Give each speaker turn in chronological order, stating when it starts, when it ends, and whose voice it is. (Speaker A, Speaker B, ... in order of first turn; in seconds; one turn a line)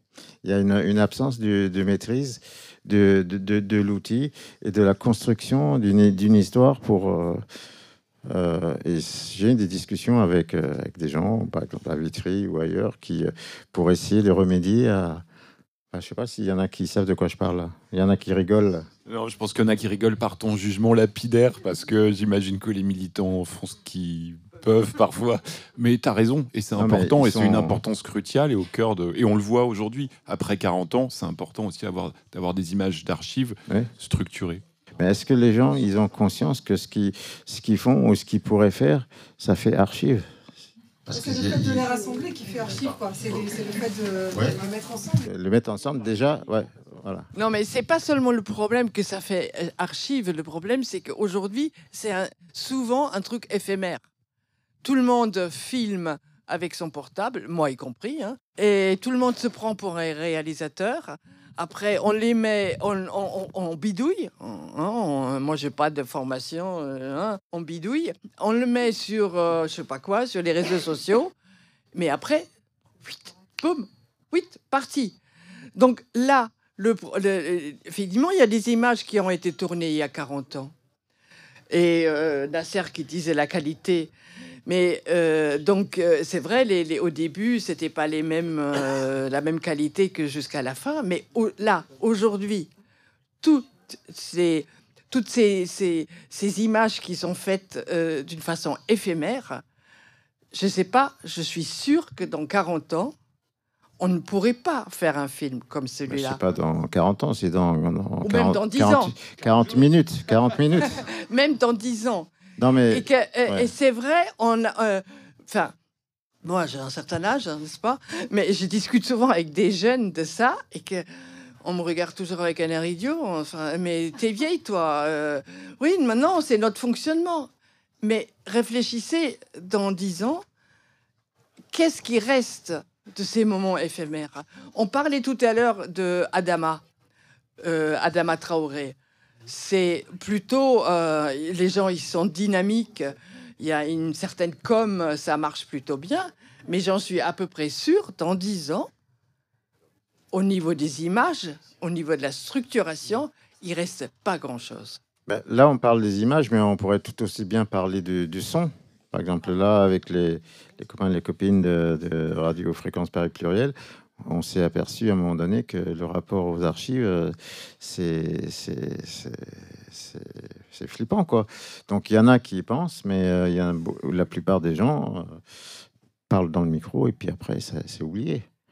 Speaker A: 0.4-7.4
Speaker A: 8.3-15.2
Speaker A: 15.9-18.9
Speaker B: 19.1-34.6
Speaker A: 26.7-27.8
Speaker A: 35.0-40.2
Speaker A: 41.0-41.8
Speaker C: 41.1-45.2
Speaker A: 45.2-47.3
Speaker D: 47.3-54.0
Speaker D: 54.8-71.3
Speaker D: 71.9-72.5
Speaker D: 73.0-75.2
Speaker D: 75.8-80.7
Speaker D: 81.7-84.1
Speaker D: 84.7-92.7
Speaker D: 93.4-99.6
Speaker D: 100.5-103.1
Speaker D: 104.0-106.4
Speaker A: 106.1-111.0
Speaker D: 108.2-109.2
Speaker D: 111.0-112.3
Speaker A: 112.6-113.7
Speaker D: 112.9-115.7
Speaker D: 116.4-121.1
Speaker D: 121.6-127.5
Speaker D: 128.0-130.4
Speaker D: 131.7-136.8
Speaker D: 137.6-148.9
Speaker D: 150.3-155.0
Speaker A: 155.3-175.4
Speaker A: 176.3-178.4